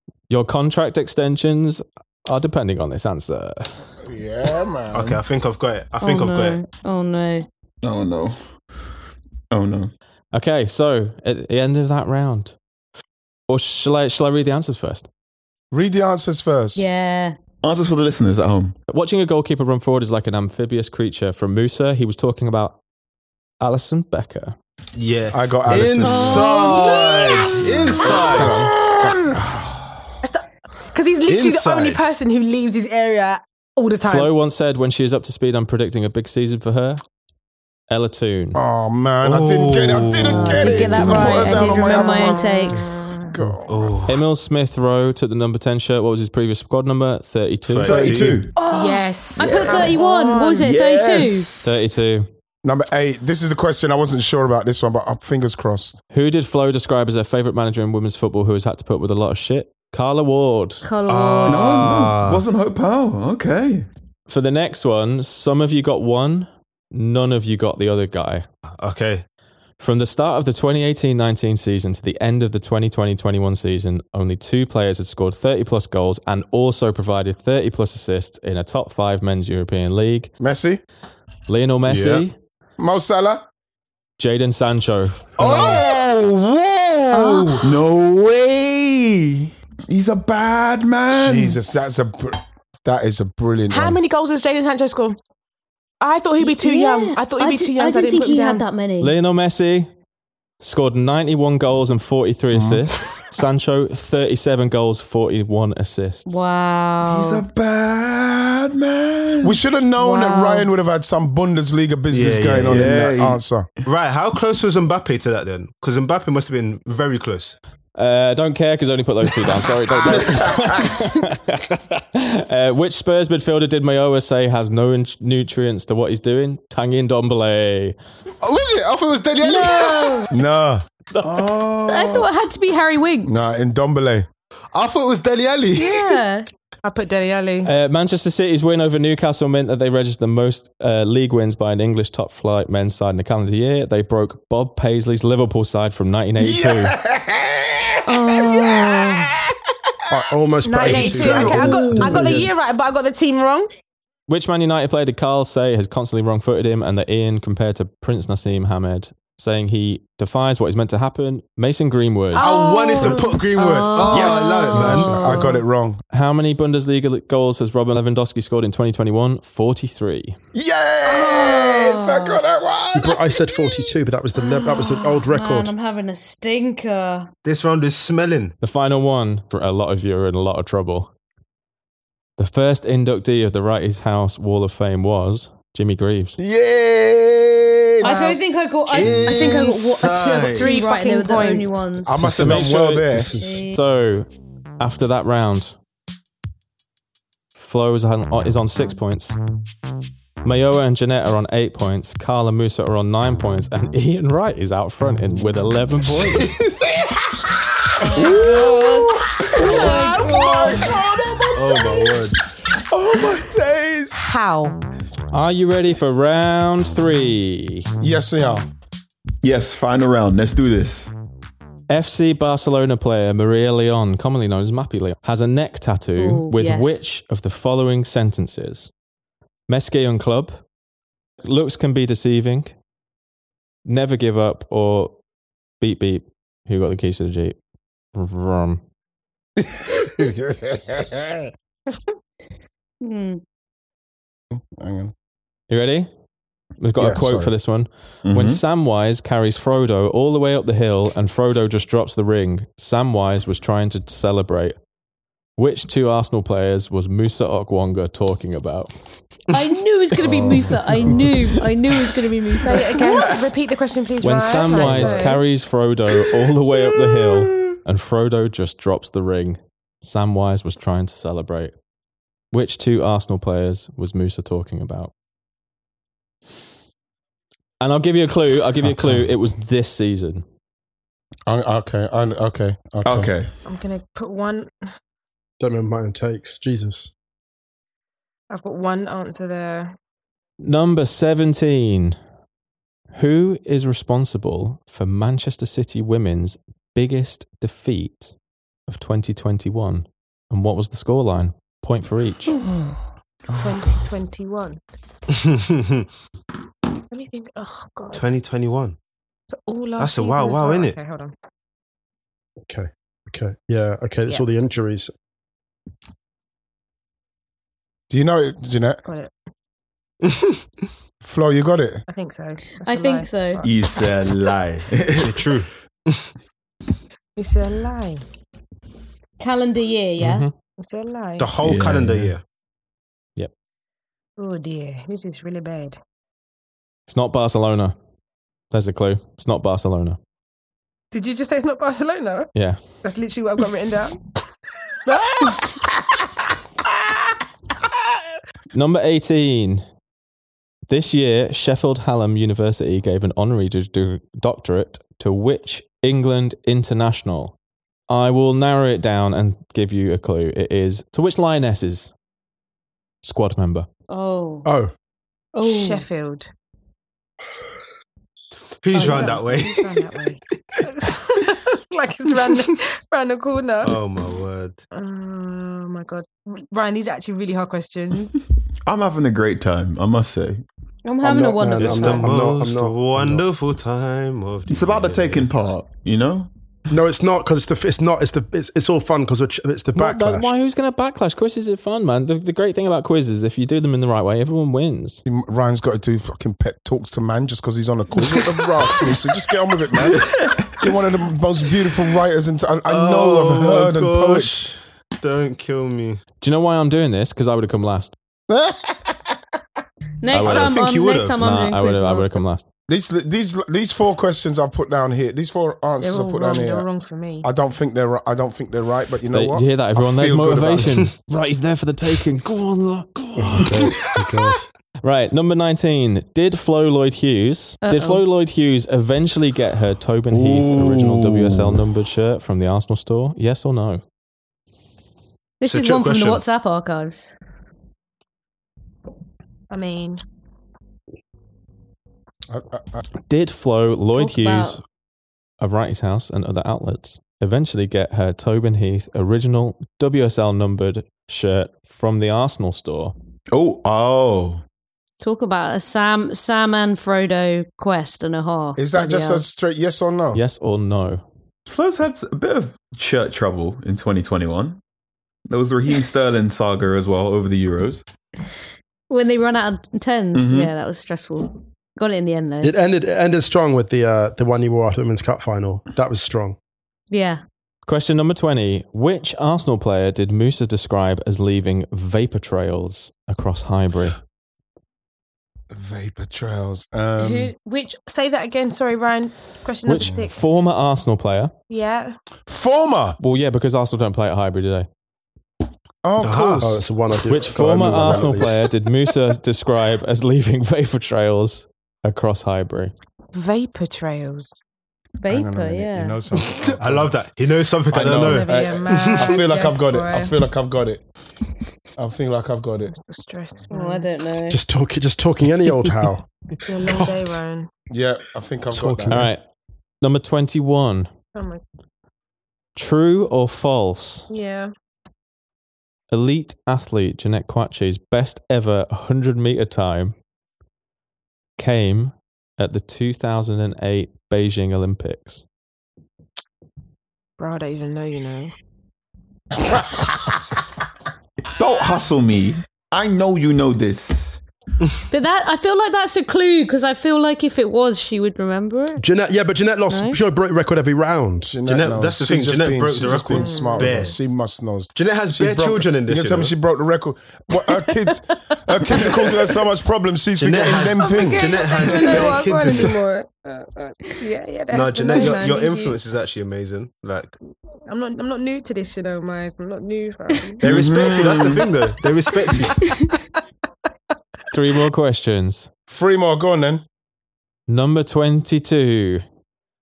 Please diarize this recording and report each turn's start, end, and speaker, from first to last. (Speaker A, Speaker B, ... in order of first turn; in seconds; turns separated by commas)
Speaker A: 0.3-3.9, Speaker B: 4.0-5.2, Speaker C: 4.9-6.6, Speaker D: 6.0-7.5, Speaker E: 7.8-8.5, Speaker E: 9.5-9.9, Speaker A: 10.3-12.6, Speaker A: 13.5-15.1, Speaker B: 15.7-16.9, Speaker D: 16.7-17.4, Speaker E: 17.6-18.8, Speaker A: 18.9-22.8, Speaker A: 23.6-24.6, Speaker C: 24.9-28.7, Speaker B: 25.3-26.4, Speaker E: 25.7-26.4, Speaker D: 26.0-27.5, Speaker E: 27.6-28.2, Speaker A: 28.3-28.7, Speaker B: 29.0-29.9, Speaker F: 30.2-34.3, Speaker C: 31.3-32.0, Speaker A: 34.0-37.0, Speaker A: 37.9-38.6, Speaker B: 38.5-44.0, Speaker C: 39.2-41.0, Speaker D: 40.3-43.0, Speaker F: 40.6-43.4, Speaker C: 43.7-44.2, Speaker A: 44.1-47.9, Speaker C: 47.7-48.5, Speaker E: 47.8-48.5, Speaker F: 48.5-50.7, Speaker D: 48.6-51.5, Speaker E: 49.4-49.9, Speaker E: 50.6-51.8, Speaker A: 51.6-52.3, Speaker B: 52.6-56.0, Speaker A: 56.1-60.8, Speaker D: 60.8-61.8, Speaker C: 61.1-62.4, Speaker E: 61.5-63.9, Speaker A: 64.3-68.5, Speaker C: 68.8-69.2, Speaker A: 69.8-80.3, Speaker B: 80.4-80.8, Speaker A: 81.5-82.3, Speaker C: 81.9-82.2, Speaker B: 82.8-83.4, Speaker A: 84.2-85.3, Speaker E: 85.4-91.6, Speaker B: 85.4-85.9, Speaker D: 87.2-87.7, Speaker B: 91.1-94.0, Speaker F: 93.7-95.2, Speaker F: 96.0-98.6, Speaker D: 96.4-99.1, Speaker A: 99.0-99.9, Speaker A: 100.6-106.4, Speaker B: 102.5-103.2, Speaker D: 106.2-107.4, Speaker E: 107.0-109.6, Speaker B: 109.4-113.7, Speaker D: 110.0-110.7, Speaker C: 112.1-113.0, Speaker E: 112.6-113.4, Speaker C: 113.8-117.6, Speaker A: 117.9-128.0, Speaker E: 120.0-121.0, Speaker C: 128.4-130.2, Speaker D: 129.4-130.3, Speaker B: 130.3-130.8, Speaker E: 131.2-132.3, Speaker D: 131.9-133.5, Speaker B: 133.2-134.3, Speaker C: 134.7-136.2, Speaker D: 135.8-136.5, Speaker F: 136.8-137.7, Speaker A: 137.6-146.9, Speaker B: 146.4-149.0, Speaker D: 148.1-149.3, Speaker B: 150.1-152.3, Speaker G: 150.1-152.5, Speaker F: 150.6-153.7, Speaker E: 150.9-152.2, Speaker A: 154.3-162.5, Speaker C: 162.4-165.3, Speaker F: 162.4-163.2, Speaker D: 162.5-165.6, Speaker E: 164.1-164.9, Speaker B: 165.0-166.0, Speaker A: 166.1-170.3, Speaker B: 170.5-173.6, Speaker D: 171.0-172.4, Speaker G: 172.9-175.7, Speaker D: 174.3-177.3, Speaker C: 177.4-178.5, Speaker A: 178.6-181.1, Speaker A: 182.4-186.4, Speaker B: 186.4-188.4, Speaker D: 188.0-192.3, Speaker C: 188.9-190.8, Speaker F: 189.3-191.8, Speaker B: 192.0-193.3, Speaker G: 192.2-193.6, Speaker A: 192.3-193.1, Speaker D: 193.3-193.8, Speaker A: 193.7-194.3, Speaker A: 194.8-195.7, Speaker A: 197.6-199.4, Speaker A: 200.4-206.6, Speaker D: 208.0-210.9, Speaker E: 208.1-211.9, Speaker C: 211.5-212.4, Speaker E: 212.9-214.2, Speaker F: 214.1-214.8, Speaker A: 215.3-217.9, Speaker B: 218.0-218.7, Speaker E: 219.4-221.1, Speaker A: 221.9-228.9, Speaker D: 226.2-227.0, Speaker A: 229.7-230.6, Speaker A: 231.4-232.7, Speaker A: 233.8-235.2, Speaker A: 235.8-237.6, Speaker A: 238.1-238.8, Speaker B: 239.6-241.5, Speaker D: 243.0-243.4, Speaker B: 244.5-245.1, Speaker A: 245.7-246.1, Speaker A: 246.8-254.8, Speaker B: 247.0-247.5, Speaker E: 248.2-248.6, Speaker A: 255.6-258.9, Speaker D: 259.5-263.3, Speaker B: 260.2-261.2, Speaker F: 262.6-265.4, Speaker A: 264.2-271.7, Speaker A: 272.5-275.1, Speaker A: 277.8-280.4, Speaker B: 281.5-283.3, Speaker E: 283.0-283.5, Speaker F: 283.6-284.8, Speaker G: 285.6-287.1, Speaker F: 288.5-289.9, Speaker A: 290.6-292.2, Speaker A: 293.1-298.3, Speaker A: 298.9-302.6, Speaker B: 302.7-303.0, Speaker F: 303.6-304.8, Speaker C: 305.3-306.1, Speaker F: 307.1-308.3, Speaker C: 308.1-309.0, Speaker F: 309.5-311.3, Speaker C: 310.0-310.9, Speaker G: 312.6-315.1, Speaker B: 318.1-319.0, Speaker F: 319.0-319.3, Speaker B: 321.2-322.0, Speaker F: 322.1-323.7, Speaker D: 322.7-323.6, Speaker E: 323.6-325.5, Speaker C: 325.2-326.2, Speaker F: 327.4-328.2, Speaker D: 329.4-330.5, Speaker A: 330.2-330.5, Speaker F: 330.8-331.5, Speaker C: 331.4-332.4, Speaker E: 331.6-332.3, Speaker F: 334.4-336.0, Speaker A: 337.1-337.9, Speaker A: 338.7-340.2, Speaker F: 341.1-342.5, Speaker A: 342.5-342.8, Speaker F: 343.0-344.2, Speaker F: 345.1-345.7, Speaker A: 348.7-349.8, Speaker A: 350.9-357.5, Speaker A: 358.1-362.1, Speaker A: 363.2-363.9, Speaker D: 364.1-364.7, Speaker G: 364.6-364.9, Speaker D: 365.5-366.1, Speaker F: 365.6-366.5, Speaker C: 368.8-369.9, Speaker D: 368.9-369.4, Speaker F: 368.9-374.0, Speaker C: 373.8-374.8, Speaker F: 374.9-378.3, Speaker E: 378.9-380.6, Speaker D: 381.0-382.4, Speaker G: 381.2-383.4, Speaker C: 381.8-385.5, Speaker E: 384.7-386.5, Speaker G: 386.9-390.5, Speaker A: 389.9-395.2, Speaker B: 395.2-404.7, Speaker E: 399.9-400.9, Speaker C: 402.9-406.2, Speaker A: 406.4-408.1, Speaker B: 408.5-409.4, Speaker D: 410.2-412.4, Speaker A: 410.3-410.7, Speaker C: 410.4-411.4, Speaker A: 411.4-412.6, Speaker B: 412.9-416.9, Speaker F: 416.0-417.5, Speaker B: 417.4-421.1, Speaker A: 419.3-424.0, Speaker G: 423.4-424.6, Speaker A: 425.0-434.0, Speaker D: 427.8-428.2, Speaker E: 430.3-431.8, Speaker D: 435.6-437.3, Speaker C: 435.6-436.4, Speaker F: 439.7-440.2, Speaker B: 442.5-443.0, Speaker A: 443.3-444.8, Speaker D: 444.1-444.8, Speaker A: 445.6-453.1, Speaker E: 453.5-454.6, Speaker D: 455.2-459.4, Speaker B: 458.8-460.4, Speaker A: 460.3-461.2, Speaker E: 461.7-464.8, Speaker E: 465.5-468.0, Speaker D: 469.1-472.7, Speaker E: 470.3-470.7, Speaker G: 472.6-476.6, Speaker D: 477.1-477.4, Speaker A: 477.9-484.2, Speaker B: 485.7-487.5, Speaker F: 487.2-490.4, Speaker A: 489.8-491.5, Speaker F: 491.7-492.2, Speaker B: 492.5-493.2, Speaker A: 493.2-494.9, Speaker B: 496.0-496.9, Speaker C: 496.2-496.7, Speaker G: 496.6-498.6, Speaker A: 497.3-502.9, Speaker B: 497.6-498.5, Speaker F: 503.3-504.6, Speaker D: 505.2-506.2, Speaker B: 505.3-507.1, Speaker C: 506.6-509.4, Speaker B: 507.9-511.0, Speaker F: 508.0-510.3, Speaker B: 512.0-512.9, Speaker F: 512.9-514.1, Speaker D: 513.7-514.6, Speaker G: 514.5-516.3, Speaker F: 516.6-517.7, Speaker B: 517.9-519.2, Speaker G: 518.7-519.3, Speaker A: 519.1-519.4, Speaker A: 520.0-521.1, Speaker F: 521.3-521.6, Speaker A: 522.8-524.2, Speaker F: 524.3-524.7, Speaker A: 526.1-530.1, Speaker A: 531.6-535.4, Speaker F: 537.4-538.5, Speaker E: 541.5-544.4, Speaker D: 545.1-549.0, Speaker G: 549.0-551.5, Speaker D: 549.9-550.2, Speaker B: 551.5-562.0, Speaker C: 551.7-554.2, Speaker F: 553.3-554.1, Speaker C: 554.9-556.5, Speaker F: 559.0-559.3, Speaker C: 560.4-563.0, Speaker F: 560.8-566.0, Speaker C: 564.7-567.4, Speaker F: 567.9-570.6, Speaker E: 570.6-571.7, Speaker C: 570.6-572.8, Speaker A: 574.5-575.7, Speaker B: 575.9-576.8, Speaker A: 577.7-579.2